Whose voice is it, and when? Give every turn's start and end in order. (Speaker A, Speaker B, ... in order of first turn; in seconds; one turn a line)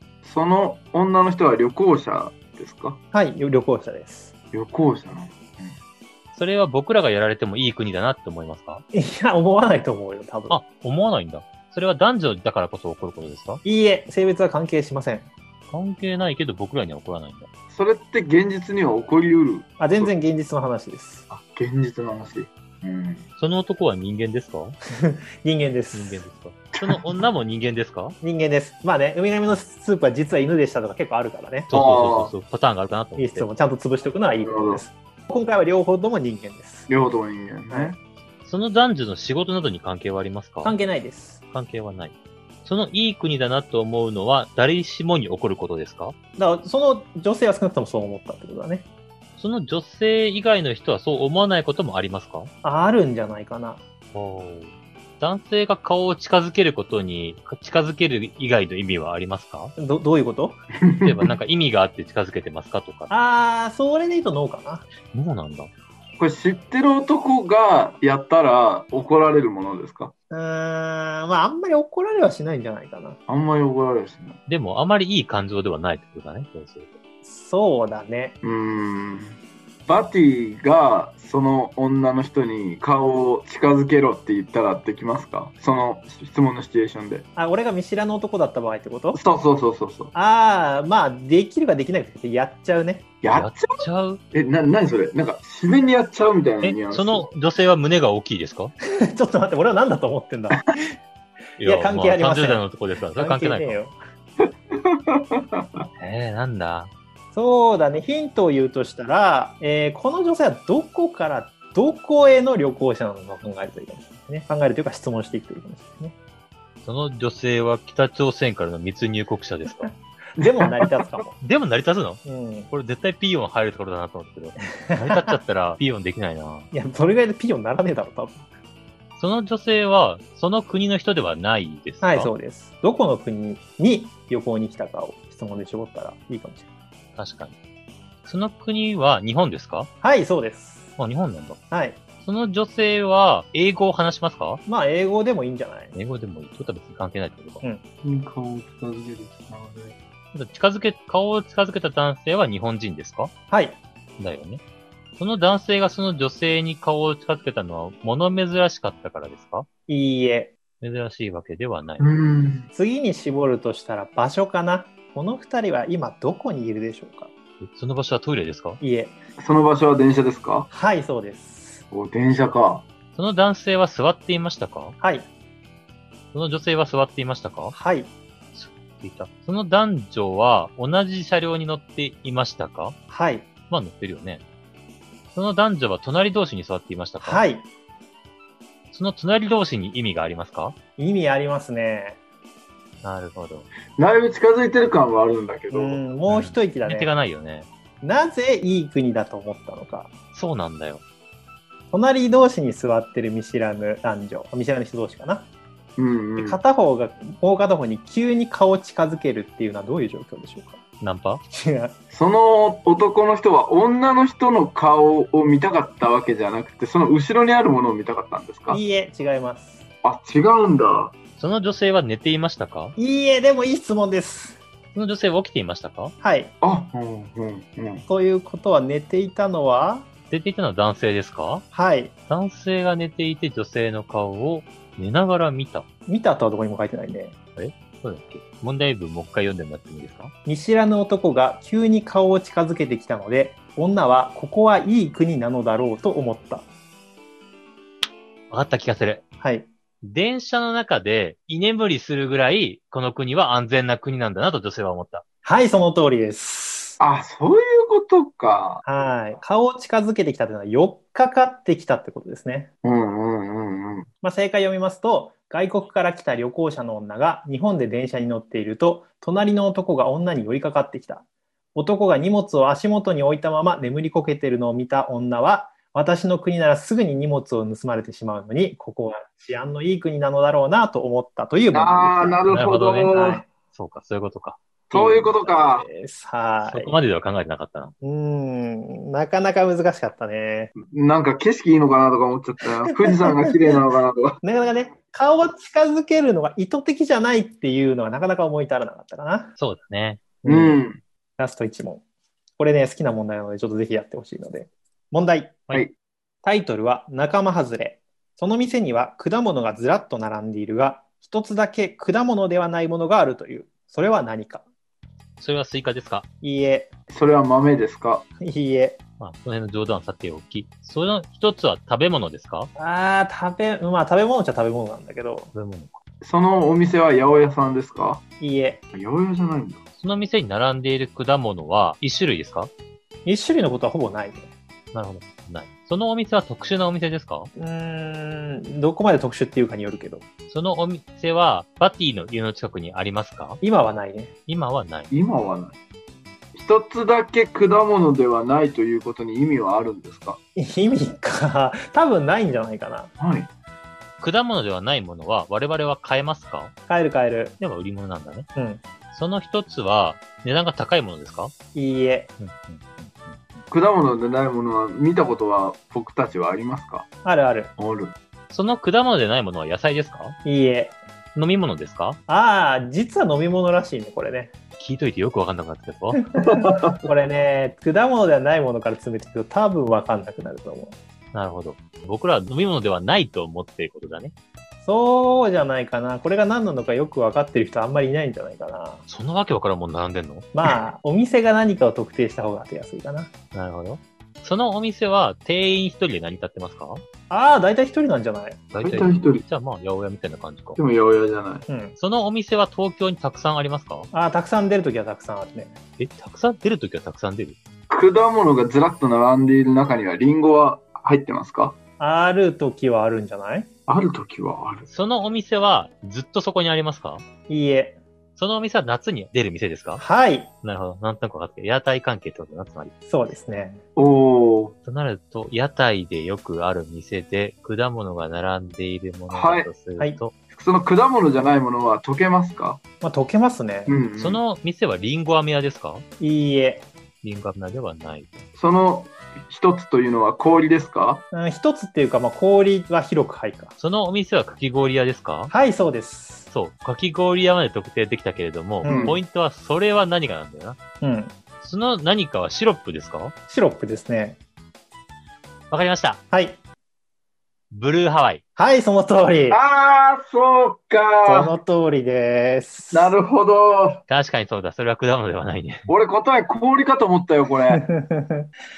Speaker A: 0.2-3.0
Speaker B: 3.1-4.3
Speaker A: 4.5-5.8
Speaker C: 6.3-8.8
Speaker B: 8.9-10.6
Speaker C: 10.5-13.6
Speaker B: 13.6-15.3
Speaker C: 15.7-17.5
Speaker A: 17.7-20.1
Speaker B: 19.8-21.2
Speaker A: 21.3-23.2
Speaker C: 23.4-24.8
Speaker B: 24.9-26.2
Speaker C: 25.9-28.2
Speaker B: 28.2-31.7
Speaker C: 31.7-33.5
Speaker A: 31.7-32.3
Speaker B: 33.2-36.9
Speaker A: 34.4-34.8
Speaker A: 36.9-38.0
Speaker B: 37.7-37.9
Speaker C: 38.4-40.8
Speaker B: 40.6-41.4
Speaker C: 41.5-46.1
Speaker B: 46.4-48.9
Speaker C: 49.4-52.5
Speaker B: 52.6-53.8
Speaker C: 54.1-59.7
Speaker B: 59.8-60.6
Speaker A: 60.8-61.3
Speaker C: 61.0-63.1
Speaker B: 63.1-64.9
Speaker C: 65.1-65.7
Speaker A: 66.2-70.1
Speaker B: 70.3-73.2
Speaker A: 73.3-74.4
Speaker C: 74.5-77.0
Speaker B: 77.2-78.3
Speaker A: 78.4-79.3
Speaker A: 79.9-87.3
Speaker B: 87.3-89.2
Speaker A: 89.1-90.1
Speaker B: 90.1-93.1
Speaker A: 93.2-97.3
Speaker C: 93.3-94.2
Speaker C: 96.6-98.7
Speaker B: 99.0-100.8
Speaker C: 101.6-103.8
Speaker B: 101.6-102.6
Speaker B: 103.2-104.0
Speaker A: 104.4-105.8
Speaker C: 106.0-106.9
Speaker B: 107.3-116.1
Speaker C: 116.8-119.9
Speaker B: 119.8-121.3
Speaker A: 120.4-120.9
Speaker C: 121.4-126.7
Speaker B: 122.2-122.7
Speaker B: 124.6-125.4
Speaker B: 126.7-128.4
Speaker C: 129.2-132.3
Speaker B: 132.0-136.6
Speaker C: 137.2-137.5
Speaker C: 138.2-139.9
Speaker B: 140.0-140.9
Speaker C: 141.0-141.6
Speaker B: 141.7-142.0
Speaker C: 142.2-144.6
Speaker B: 144.7-145.9
Speaker C: 145.9-147.6
Speaker A: 148.0-149.9
Speaker C: 150.3-153.3
Speaker B: 153.5-153.8
Speaker C: 154.2-154.6
Speaker C: 155.2-159.7
Speaker B: 159.9-160.5
Speaker C: 160.8-162.2
Speaker A: 162.0-162.7
Speaker B: 162.7-167.3
Speaker C: 167.6-168.8
Speaker B: 168.8-169.1
Speaker A: 169.4-170.7
Speaker B: 170.7-171.8
Speaker A: 171.9-172.8
Speaker C: 173.1-175.0
Speaker B: 175.0-175.3
Speaker C: 176.3-177.7
Speaker B: 177.7-178.1
Speaker C: 178.5-183.0
Speaker B: 183.1-183.5
Speaker C: 183.7-184.4
Speaker C: 185.3-187.4
Speaker B: 187.2-187.7
Speaker C: 188.9-190.8
Speaker B: 191.0-192.2
Speaker C: 193.0-193.7
Speaker A: 194.0-196.0
Speaker B: 195.7-197.1
Speaker C: 196.3-197.7
Speaker B: 198.0-200.1
Speaker C: 200.3-201.0
Speaker B: 201.9-205.5
Speaker A: 206.0-206.6
Speaker B: 206.4-210.8
Speaker C: 211.0-211.4
Speaker B: 211.5-211.9
Speaker A: 212.1-218.8
Speaker B: 218.7-219.8
Speaker A: 220.0-221.1
Speaker C: 221.4-222.9
Speaker B: 223.0-224.6
Speaker C: 224.9-226.1
Speaker B: 226.2-226.5
Speaker A: 226.6-228.0
Speaker B: 228.1-230.1
Speaker C: 230.3-231.7
Speaker B: 231.7-232.1
Speaker C: 232.3-235.9
Speaker B: 236.1-237.3
Speaker C: 237.6-240.3
Speaker B: 240.4-246.7
Speaker C: 248.5-249.2
Speaker B: 249.4-249.7
Speaker C: 250.0-255.2
Speaker B: 255.4-257.0
Speaker A: 257.0-258.8
Speaker B: 258.8-262.7
Speaker A: 262.8-264.1
Speaker B: 264.2-271.2
Speaker B: 271.7-282.5
Speaker A: 281.7-283.4
Speaker C: 282.5-283.1
Speaker B: 283.1-283.5
Speaker C: 283.7-284.6
Speaker A: 284.9-285.9
Speaker B: 284.9-286.9
Speaker C: 286.6-287.9
Speaker B: 288.0-290.7
Speaker A: 290.8-294.4
Speaker B: 292.9-293.5
Speaker B: 294.4-299.6
Speaker C: 299.6-300.2
Speaker B: 300.4-300.8
Speaker A: 300.4-301.0
Speaker B: 301.4-302.0
Speaker B: 302.6-305.7
Speaker B: 306.4-314.6
Speaker C: 315.4-316.2
Speaker B: 316.4-316.9
Speaker A: 317.1-318.2
Speaker B: 318.4-319.0
Speaker C: 319.2-322.7
Speaker B: 322.8-325.5
Speaker C: 325.5-326.0
Speaker A: 326.2-328.2
Speaker B: 328.4-328.8
Speaker A: 328.9-329.8
Speaker C: 330.0-332.7
Speaker B: 333.2-334.5
Speaker C: 334.9-337.5
Speaker B: 337.6-340.2
Speaker C: 340.5-343.6
Speaker B: 343.6-344.3
Speaker C: 344.5-345.1
Speaker A: 345.1-345.8
Speaker A: 346.5-350.4
Speaker B: 350.6-353.1
Speaker A: 353.2-353.5
Speaker C: 354.2-356.7
Speaker B: 356.9-357.6
Speaker C: 357.6-358.5
Speaker B: 358.6-358.8
Speaker C: 359.1-361.5
Speaker B: 361.7-362.3
Speaker C: 362.4-363.6
Speaker A: 363.7-367.1
Speaker B: 367.2-367.7
Speaker A: 367.8-368.1
Speaker C: 368.5-370.4
Speaker B: 370.4-370.9
Speaker C: 371.3-372.2
Speaker B: 372.3-374.5
Speaker C: 374.8-376.2
Speaker B: 376.4-380.9
Speaker A: 376.4-377.0
Speaker C: 381.3-384.3
Speaker B: 384.8-389.0
Speaker C: 389.1-390.5
Speaker B: 390.5-393.3
Speaker C: 393.5-397.0
Speaker B: 397.3-398.6
Speaker C: 398.7-400.8
Speaker A: 398.8-399.4
Speaker A: 400.8-401.6
Speaker B: 401.7-401.9
Speaker C: 402.0-404.1
Speaker B: 404.1-405.8
Speaker C: 406.0-407.6
Speaker A: 407.9-411.8
Speaker B: 412.0-413.7
Speaker A: 413.9-414.9
Speaker C: 414.9-417.2
Speaker B: 417.5-418.0
Speaker C: 418.4-420.0
Speaker B: 420.0-420.5
Speaker C: 420.6-422.9
Speaker B: 423.1-423.8
Speaker A: 423.9-424.7
Speaker C: 424.8-430.3
Speaker A: 429.3-429.7
Speaker A: 430.5-432.8
Speaker B: 433.0-433.9
Speaker A: 433.9-434.4
Speaker C: 434.2-436.0
Speaker B: 436.2-436.9
Speaker C: 437.2-438.3
Speaker A: 438.6-441.2
Speaker B: 441.3-443.7
Speaker C: 443.8-445.5
Speaker B: 445.5-446.5
Speaker C: 446.5-450.8
Speaker B: 448.8-449.2
Speaker A: 448.8-449.2
Speaker B: 451.0-451.3
Speaker C: 451.6-453.3
Speaker B: 453.5-454.4
Speaker C: 455.7-456.2
Speaker B: 456.3-456.6
Speaker C: 457.7-458.4
Speaker B: 458.6-459.6
Speaker A: 459.5-461.5
Speaker B: 461.2-463.1
Speaker A: 462.9-464.0
Speaker C: 464.1-465.9
Speaker A: 465.9-467.8
Speaker B: 467.7-468.5